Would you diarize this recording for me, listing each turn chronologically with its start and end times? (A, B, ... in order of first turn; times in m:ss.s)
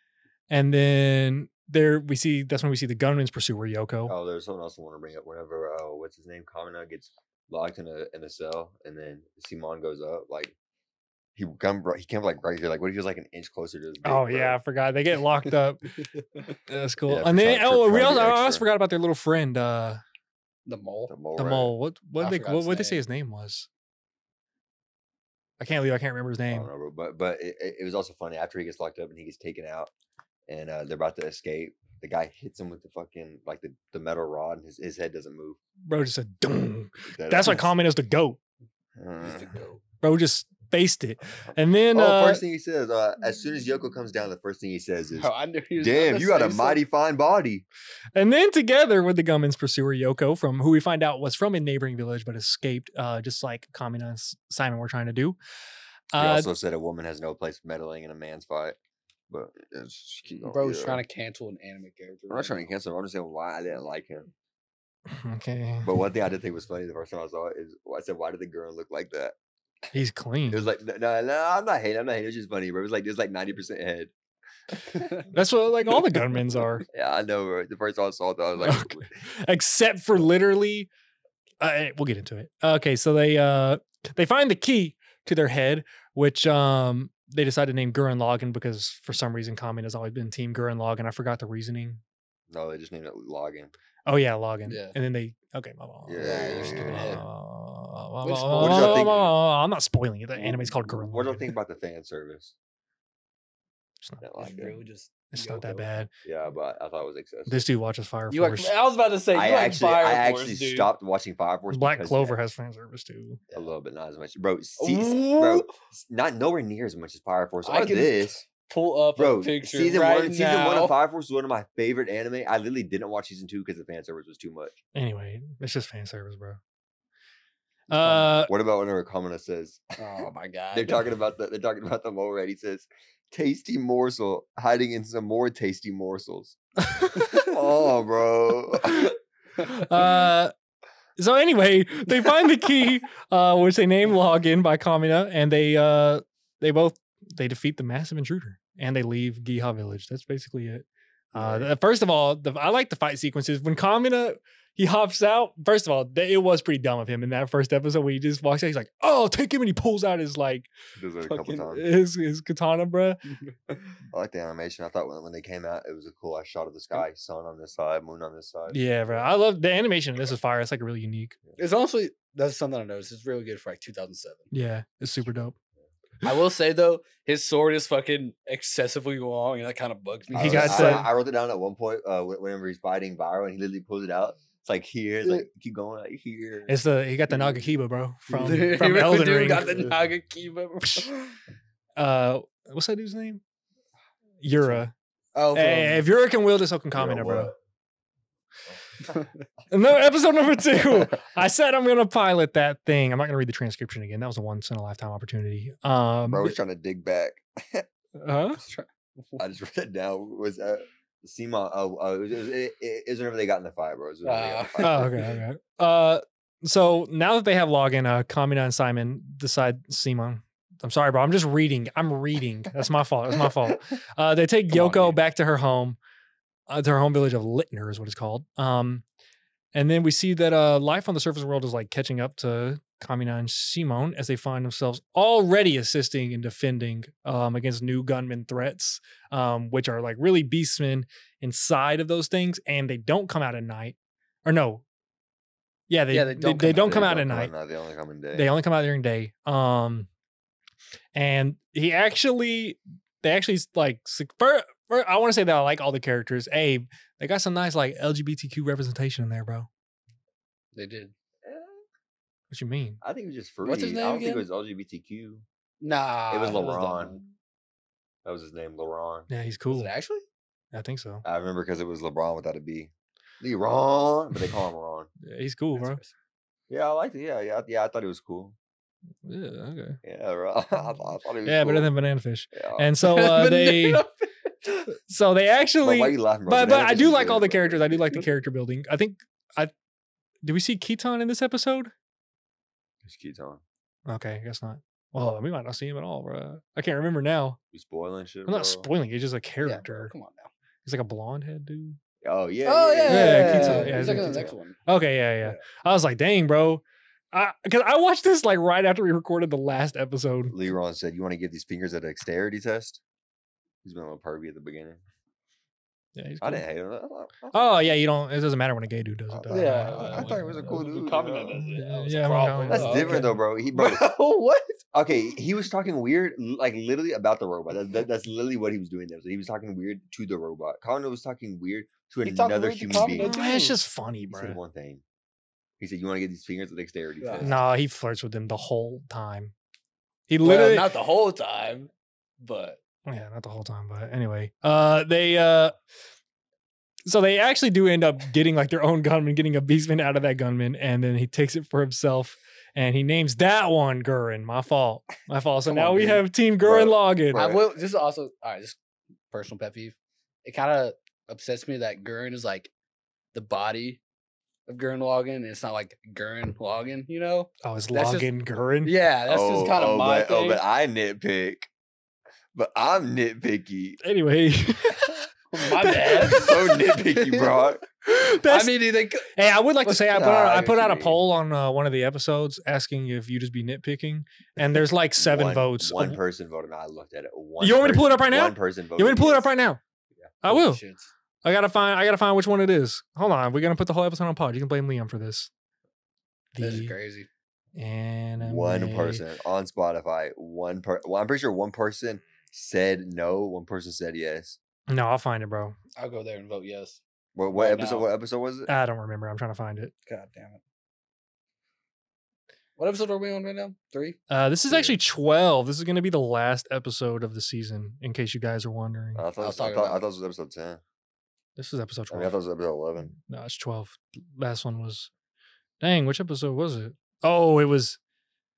0:00.5-0:04.1 A
0:04.0-0:10.5 B
0:11.4-0:14.6 B
0:14.0-0:15.9 A
0:16.7-0:20.0 A
0:17.0-0:18.7 B
0:20.6-0:21.1 C
0:21.1-0:21.7 B
0:21.4-0:23.7 A
0:22.2-0:23.0 C
0:25.6-0:26.7 A
0:26.5-0:29.9 B
0:30.5-0:35.6 B
0:35.9-0:38.4 A
0:37.1-0:37.7 B
0:39.0-0:39.6 B
0:39.2-0:39.8 C
0:40.0-0:42.4 A
0:41.4-0:47.6 B
0:45.2-0:46.8 C
0:48.1-0:55.4 A
0:56.1-0:56.5 A
0:56.2-0:58.8 B
0:59.3-1:01.0 B
1:00.4-1:02.7 C
1:02.3-1:04.3 B
1:05.1-1:05.9 A
1:05.8-1:09.4 B
1:09.9-1:10.6 A
1:10.5-1:14.1 B
1:14.7-1:15.1 B
1:15.3-1:16.8 A
1:16.9-1:19.1 B
1:18.6-1:20.9 A
1:21.6-1:32.0 A
1:32.5-1:33.7 B
1:34.1-1:41.5 A
1:34.7-1:34.9 C
1:36.1-1:37.2 B
1:36.2-1:37.2 C
1:38.2-1:39.2 C
1:38.6-1:39.3 B
1:40.4-1:42.5 B
1:44.2-1:44.8 B
1:44.4-1:45.9 C
1:45.3-1:46.1 A
1:46.2-1:47.6 B
1:47.5-1:48.7 A
1:48.3-1:50.9 C
1:49.3-1:52.4 B
1:51.7-1:53.4 A
1:53.5-1:58.4 B
1:54.8-1:55.7 C
1:57.6-2:00.9 C
1:59.2-2:04.8 B
2:04.9-2:06.6 A
2:07.9-2:08.5 A
2:07.9-2:10.2 B
2:10.0-2:11.0 C
2:10.7-2:16.6 B
2:16.8-2:17.4 A
2:17.1-2:19.2 B
2:19.6-2:20.5 A
2:21.2-2:40.7 A
2:31.3-2:31.7 B
2:41.0-2:41.8 B
2:41.3-2:41.7 C
2:41.6-2:43.2 A
2:43.3-2:43.8 C
2:44.1-2:49.2 B
2:48.7-2:51.4 A
2:51.6-2:54.5 C
2:54.5-2:55.5 A
2:56.2-3:01.1 C
3:00.3-3:01.1 A
3:00.3-3:07.6 B
3:06.7-3:09.9 A
3:08.3-3:11.3 C
3:10.8-3:11.1 A
3:12.0-3:13.4 A
3:14.4-3:14.9 A
3:15.3-3:16.0 C
3:15.5-3:17.5 A
3:16.9-3:17.6 B
3:19.7-3:26.6 A
3:26.3-3:27.9 B
3:28.2-3:28.6 A
3:28.6-3:29.4 C
3:29.4-3:35.3 B
3:34.2-3:35.0 C
3:34.8-3:46.0 A
3:44.7-3:45.2 C
3:46.7-3:49.0 A
3:49.7-4:04.8 A
4:05.9-4:07.5 A
4:06.1-4:07.1 C
4:06.7-4:08.5 B
4:08.3-4:10.1 A
4:11.1-4:19.7 A
4:20.7-4:21.1 C
4:21.4-4:21.8 B
4:22.5-4:23.0 A
4:23.0-4:25.4 B
4:23.6-4:24.4 C
4:25.8-4:27.2 C
4:26.3-4:27.2 B
4:28.2-4:29.3 B
4:29.3-4:29.9 A
4:29.7-4:30.2 C
4:30.7-4:31.2 A
4:31.2-4:35.1 B
4:35.2-4:36.0 A
4:35.8-4:36.1 C
4:36.7-4:38.6 B
4:39.2-4:40.0 A
4:40.0-4:41.9 B
4:41.4-4:44.0 A
4:42.5-4:42.9 B
4:43.0-4:44.8 C
4:44.9-4:49.7 A
4:45.8-4:48.2 B
4:50.4-4:51.9 A
4:53.0-4:53.6 B
4:54.1-4:57.6 A
4:57.7-4:58.9 B
4:58.5-5:00.1 A
4:59.6-5:00.5 C
5:00.8-5:02.0 A
5:02.2-5:04.6 B
5:02.6-5:04.8 C
5:03.1-5:10.6 A
5:10.5-5:13.0 B
5:13.8-5:15.0 B
5:16.2-5:16.6 A
5:16.4-5:17.7 B
5:17.5-5:20.8 A
5:19.3-5:21.8 B
5:19.5-5:24.8 C
5:21.6-5:23.4 A
5:22.7-5:24.1 B
5:24.9-5:33.3 B
5:32.2-5:33.8 C
5:33.2-5:34.6 A
5:34.3-5:35.0 B
5:35.8-5:37.6 B
5:37.2-5:37.6 C
5:37.4-5:39.5 A
5:40.3-5:40.9 A
5:40.4-5:42.8 C
5:43.0-5:45.7 A
5:47.0-5:57.5 A
5:55.7-5:56.2 C
5:56.6-5:57.7 B
5:57.3-5:58.8 C
5:59.3-6:02.7 C
6:03.3-6:04.0 C
6:04.7-6:08.3 C
6:07.6-6:08.9 A
6:08.8-6:10.6 C
6:09.3-6:11.7 B
6:12.5-6:14.0 B
6:14.0-6:16.6 A
6:15.5-6:17.7 C
6:16.2-6:17.8 B
6:18.0-6:26.2 A
6:18.4-6:20.2 C
6:20.1-6:21.2 B
6:25.2-6:29.5 B
6:27.6-6:29.8 A
6:30.4-6:30.8 A
6:30.4-6:31.1 C
6:31.4-6:35.5 A
6:36.5-6:36.9 A
6:36.6-6:37.3 C
6:37.8-6:39.2 A
6:38.4-6:44.6 B
6:44.9-6:45.8 A
6:46.0-6:48.1 C
6:47.4-6:48.7 B
6:48.7-6:49.9 A
6:50.0-6:50.6 C
6:52.8-6:54.2 C
6:54.3-6:59.2 A
6:54.7-6:55.0 B
6:59.2-7:00.8 B
6:59.4-7:00.0 C
7:01.6-7:02.4 A
7:02.1-7:03.1 B
7:03.2-7:05.1 A
7:05.8-7:08.0 A